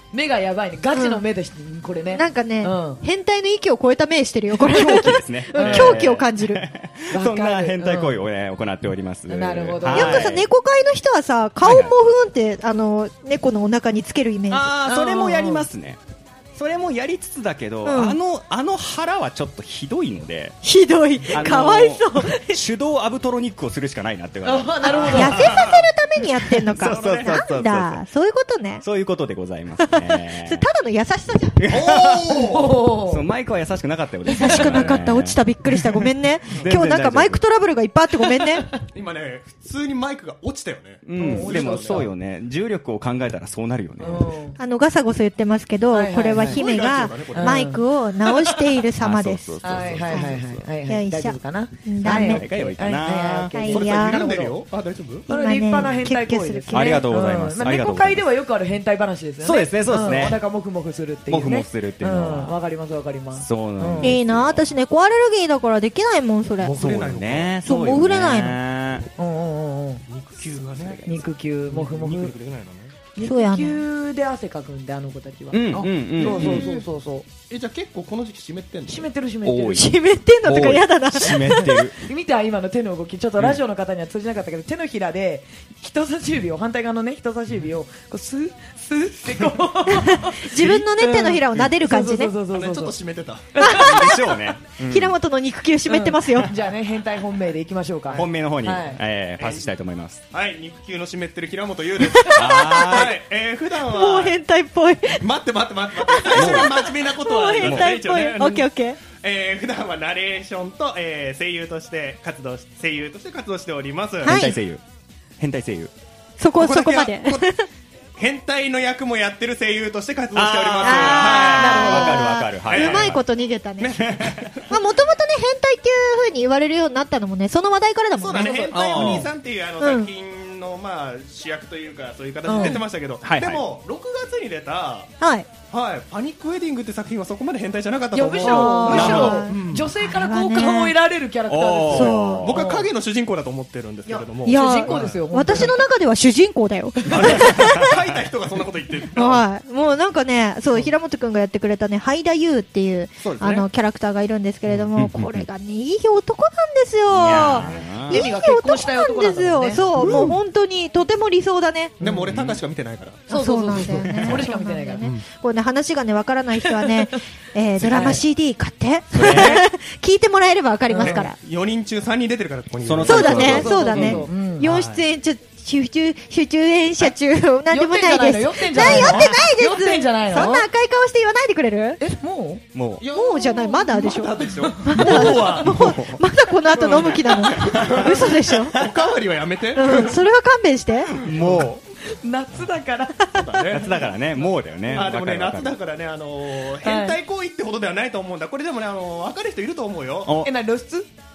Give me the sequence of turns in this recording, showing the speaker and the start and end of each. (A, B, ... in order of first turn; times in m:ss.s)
0:00.1-0:03.0 A
0:01.0-0:01.2 B
0:02.1-0:06.6 B
0:04.5-0:10.5 C
0:05.6-0:06.0 A
0:07.1-0:08.2 A
0:09.3-0:10.3 A
0:09.9-0:14.7 B
0:11.6-0:12.0 C
0:14.5-0:16.0 C
0:14.9-0:15.7 A
0:16.6-0:20.6 C
0:17.8-0:18.2 B
0:20.6-0:22.6 B
0:21.3-0:25.6 C
0:24.4-0:25.5 A
0:24.9-0:28.8 B
0:24.9-0:25.9 D
0:26.7-0:27.4 D
0:26.7-0:28.0 C
0:28.8-0:30.6 C
0:29.8-0:31.7 B
0:31.6-0:32.5 C
0:31.7-0:32.8 D
0:32.3-0:33.2 A
0:33.1-0:37.4 C
0:34.3-0:38.7 B
0:38.8-0:42.1 D
0:41.0-0:44.3 C
0:41.2-0:42.1 A
0:44.0-0:44.6 A
0:44.6-0:49.5 B
0:45.9-0:46.6 A
0:46.4-0:47.8 D
0:47.3-0:47.8 A
0:49.0-0:50.6 C
0:49.6-0:54.6 A
0:50.9-0:52.5 B
0:52.0-0:53.5 C
0:53.5-0:54.2 B
0:53.7-0:55.3 D
0:55.3-0:57.1 B
0:55.3-1:04.2 A
0:56.7-0:58.3 C
0:59.4-1:00.4 C
1:01.3-1:02.6 C
1:03.4-1:04.7 C
1:04.0-1:06.8 B
1:06.6-1:07.6 D
1:06.7-1:09.1 C
1:07.6-1:08.6 B
1:09.2-1:10.0 A
1:10.1-1:12.9 D
1:10.6-1:11.1 C
1:11.1-1:12.3 A
1:13.2-1:17.3 A
1:13.2-1:13.8 B
1:15.5-1:16.7 C
1:15.8-1:16.8 D
1:17.5-1:19.1 D
1:18.9-1:19.9 A
1:19.4-1:22.0 C
1:19.7-1:21.8 B
1:22.0-1:33.0 A
1:29.9-1:32.3 B
1:32.5-1:33.5 D
1:33.6-1:33.9 A
1:33.6-1:34.4 B
1:33.6-1:35.2 C
1:34.9-1:36.5 B
1:35.9-1:39.0 A
1:38.1-1:40.2 C
1:39.4-1:39.7 D
1:40.3-1:44.4 D
1:42.2-1:43.1 B
1:42.3-1:43.2 C
1:43.8-1:45.2 B
1:45.2-1:54.4 D
1:46.0-1:49.0 B
1:46.3-1:46.8 C
1:47.6-1:48.0 C
1:54.2-1:54.8 C
1:54.2-1:54.6 B
1:55.4-1:55.9 C
1:56.4-1:57.7 B
1:56.6-1:57.5 D
1:58.2-2:03.2 D
2:00.3-2:03.2 C
2:00.8-2:04.1 B
2:01.6-2:02.1 A
2:03.8-2:04.7 D
2:04.0-2:04.5 C
2:04.7-2:09.2 B
2:08.2-2:15.1 D
2:08.4-2:09.2 A
2:08.7-2:09.3 C
2:09.8-2:10.1 B
2:12.5-2:12.8 A
2:13.2-2:13.6 C
2:15.2-2:15.5 B
2:15.7-2:19.9 D
2:18.1-2:22.9 A
2:18.4-2:21.0 B
2:18.9-2:19.4 C
2:21.5-2:22.6 C
2:21.9-2:22.4 B
2:22.4-2:25.7 D
2:24.1-2:25.8 A
2:24.4-2:27.9 B
2:27.1-2:29.4 D
2:27.2-2:28.0 C
2:29.2-2:42.0 B
2:33.3-2:33.6 C
2:33.3-2:33.6 D
2:34.7-2:35.5 C
2:37.1-2:38.3 C
2:38.1-2:40.2 A
2:39.9-2:40.4 D
2:40.0-2:40.3 C
2:42.0-2:42.3 A
2:42.0-2:44.4 D
2:42.3-2:42.6 C
2:43.3-2:51.4 B
2:43.3-2:45.1 A
2:44.1-2:44.4 C
2:46.7-2:47.0 A
2:47.9-2:48.2 A
2:49.1-2:49.7 C
2:50.9-2:51.3 A
2:51.0-2:53.9 D
2:52.8-2:54.3 C
2:53.0-3:02.0 B
2:53.2-2:54.7 A
2:54.6-2:55.0 D
2:57.7-3:00.7 A
2:58.9-2:59.1 C
3:02.0-3:02.6 A
3:02.7-3:03.0 C
3:03.0-3:06.0 D
3:03.1-3:08.8 B
3:04.7-3:05.2 A
3:05.0-3:06.2 C
3:06.7-3:10.2 D
3:07.7-3:08.1 C
3:09.8-3:11.2 B
3:11.2-3:11.7 D
3:11.2-3:11.8 C
3:12.1-3:13.4 A
3:13.3-3:20.4 D
3:13.7-3:15.8 C
3:16.8-3:17.2 A
3:20.2-3:20.5 C
3:20.4-3:21.1 A